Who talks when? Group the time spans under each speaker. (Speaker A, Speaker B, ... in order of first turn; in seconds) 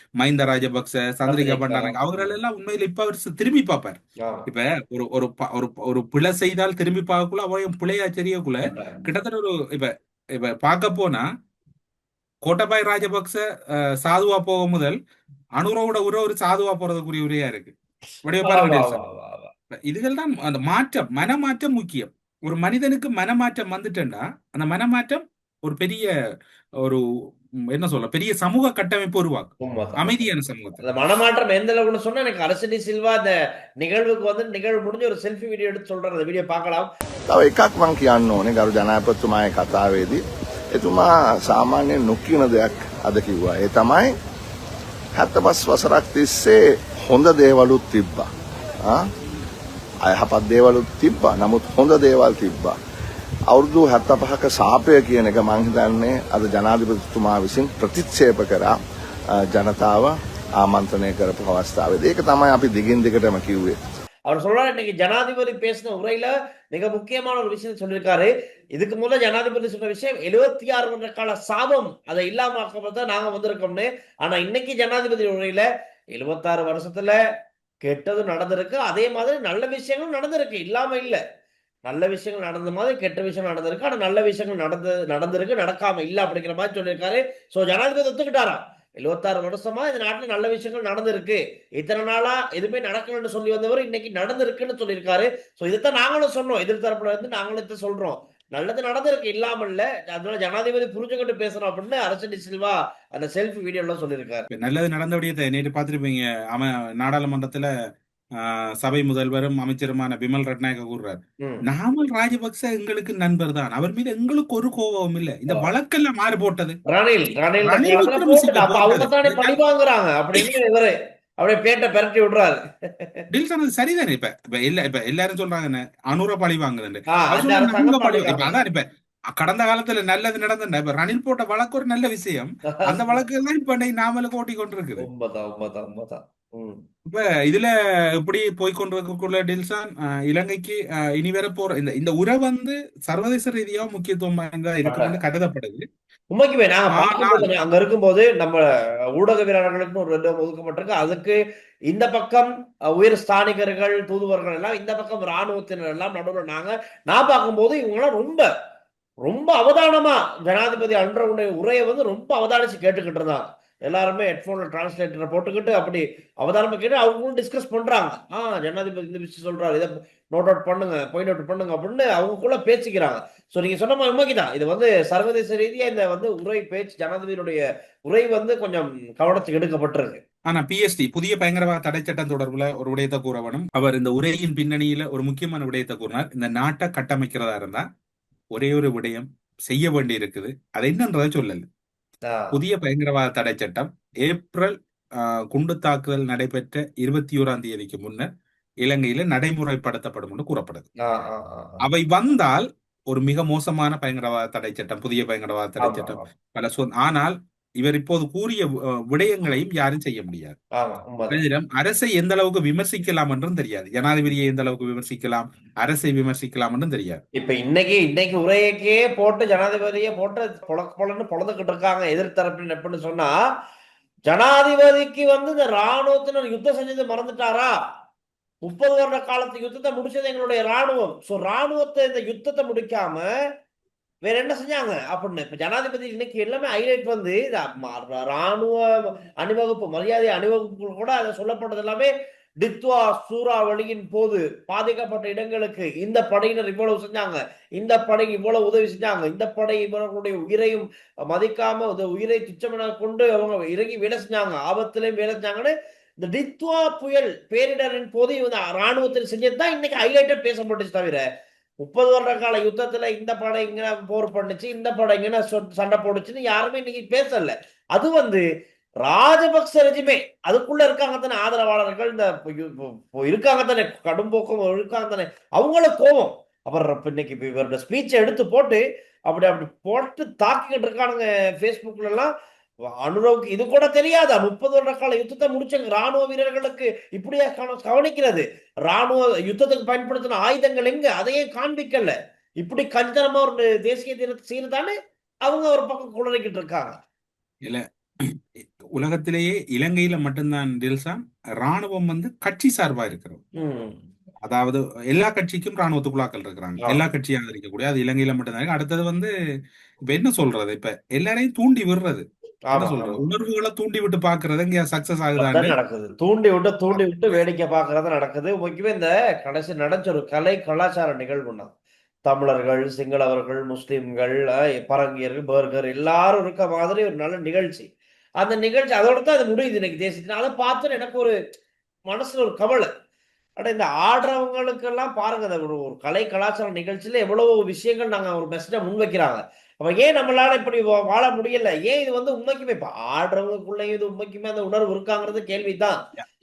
Speaker A: 0.2-11.2, 12.4-13.4, 14.0-14.9, 15.6-17.7, 18.2-19.0, 19.9-26.1, 27.7-30.9, 104.5-107.7, 108.4-116.8, 117.6-119.6, 123.3-135.1, 137.1-145.8, 146.9-147.5, 180.5-187.8, 188.5-191.7, 192.5-198.3, 198.8-200.9, 201.8-210.6, 211.3-217.2, 297.6-303.4, 304.4-309.3, 310.1-315.8
Speaker B: 1.3-2.3, 8.7-9.1, 18.4-19.5, 29.6-30.2, 30.8-36.9, 64.3-77.2, 77.8-81.2, 81.9-104.5, 116.9-123.2, 127.1-128.6, 132.7-133.2, 135.0-136.8, 144.8-145.2, 146.3-148.6, 149.2-151.4, 151.9-158.5, 159.2-180.2, 192.3-192.6, 201.0-201.8, 205.8-206.3, 210.8-211.4, 217.4-223.3, 224.3-227.7, 228.6-233.3, 234.2-238.8, 239.4-261.2, 261.8-268.4, 269.0-282.3, 283.0-297.0, 303.6-304.0, 312.7-313.2, 315.4-321.7, 322.3-327.9, 328.4-331.4, 332.1-332.9, 333.6-346.0
Speaker C: 37.3-40.2, 40.7-44.1, 45.2-48.3, 50.0-52.8, 53.5-58.8, 59.4-63.8